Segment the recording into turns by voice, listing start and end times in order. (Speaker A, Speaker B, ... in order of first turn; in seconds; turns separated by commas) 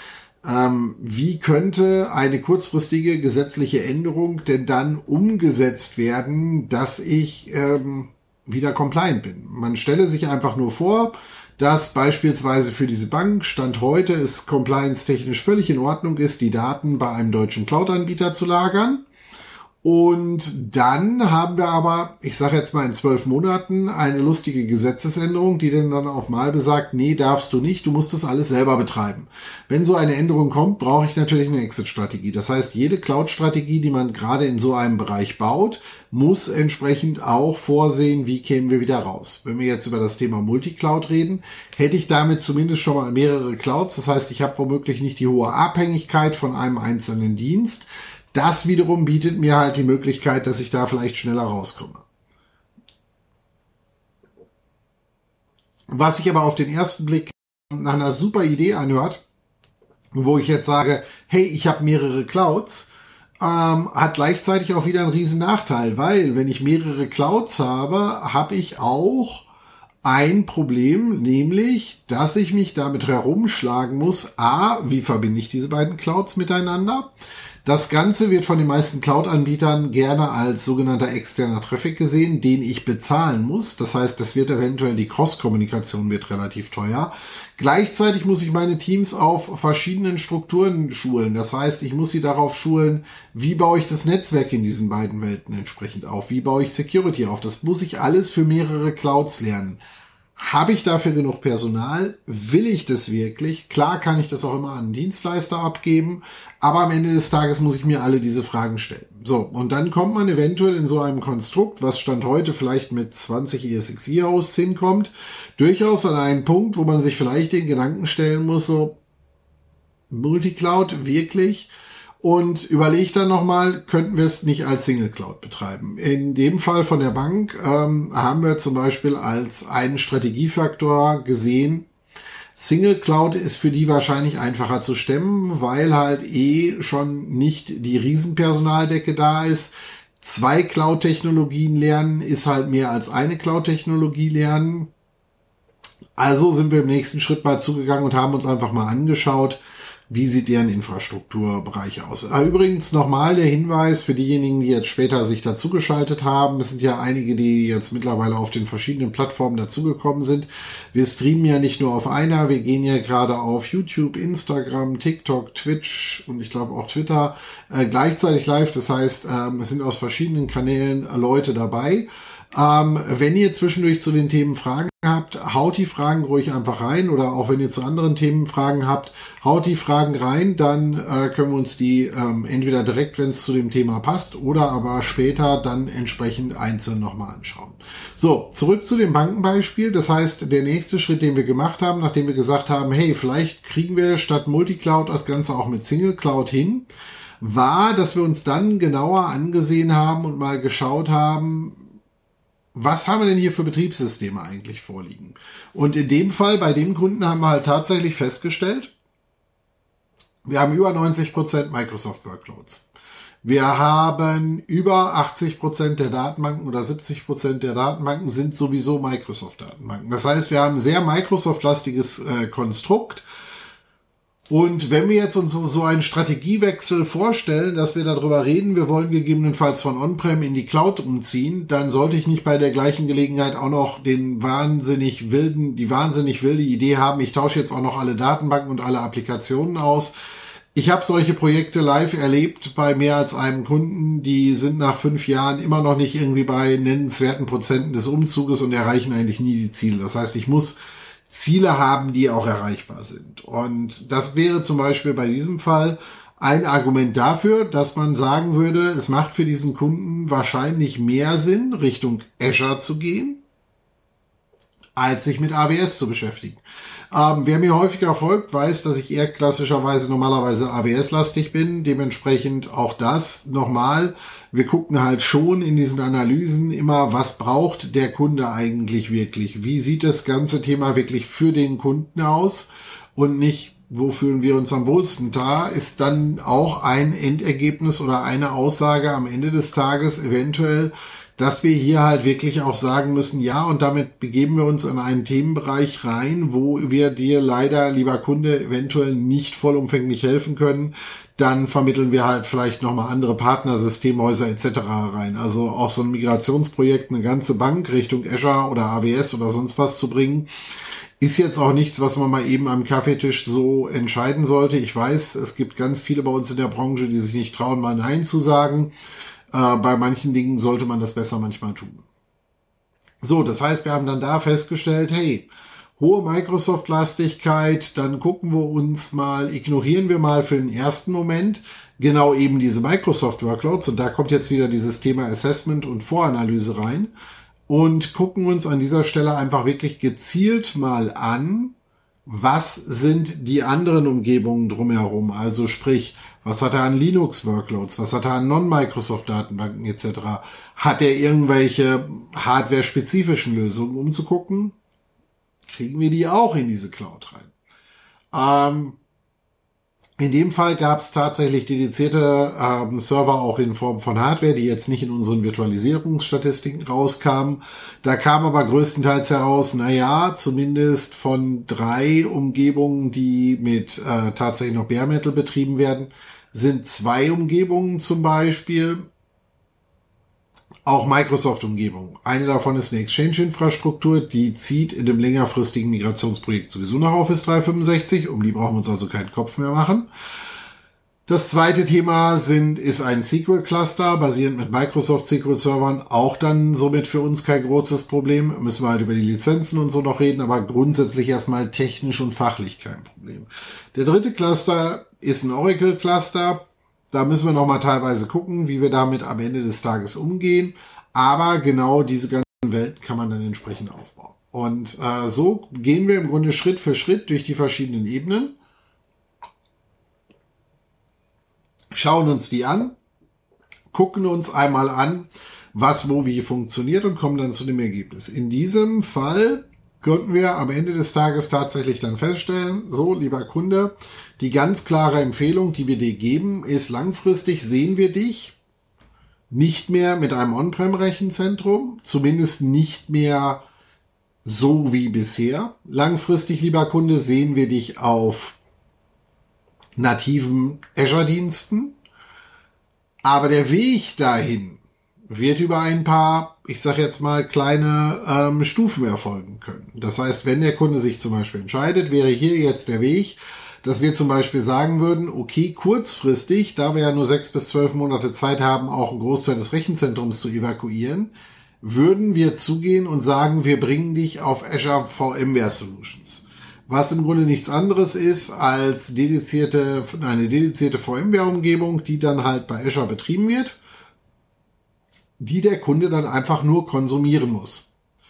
Speaker A: 0.4-19.1, Speaker A: 19.8-52.0, Speaker A: 55.9-59.2, Speaker A: 60.1-62.9, Speaker A: 63.4-69.5, Speaker A: 70.0-77.1, Speaker A: 77.7-99.8, Speaker A: 100.4-119.0, Speaker A: 120.1-131.9, Speaker A: 132.6-144.9, Speaker A: 146.2-196.9, Speaker A: 197.4-201.8, Speaker A: 202.8-208.9, Speaker A: 210.4-212.9, Speaker A: 213.4-223.2, Speaker A: 224.5-240.1, Speaker A: 240.8-263.4, Speaker A: 265.0-310.5, Speaker A: 311.2-318.9, Speaker A: 319.5-322.1, Speaker A: 323.2-337.1, Speaker A: 337.7-341.7, Speaker A: 342.3-354.8, Speaker A: 355.7-357.5, Speaker A: 358.3-359.0, Speaker A: 360.2-379.1, Speaker A: 380.9-390.1, Speaker A: 391.3-418.6, Speaker A: 421.9-423.0, Speaker A: 423.9-438.6, Speaker A: 439.5-443.6, Speaker A: 444.4-448.6, Speaker A: 450.0-452.0, Speaker A: 453.2-483.8, Speaker A: 485.4-487.9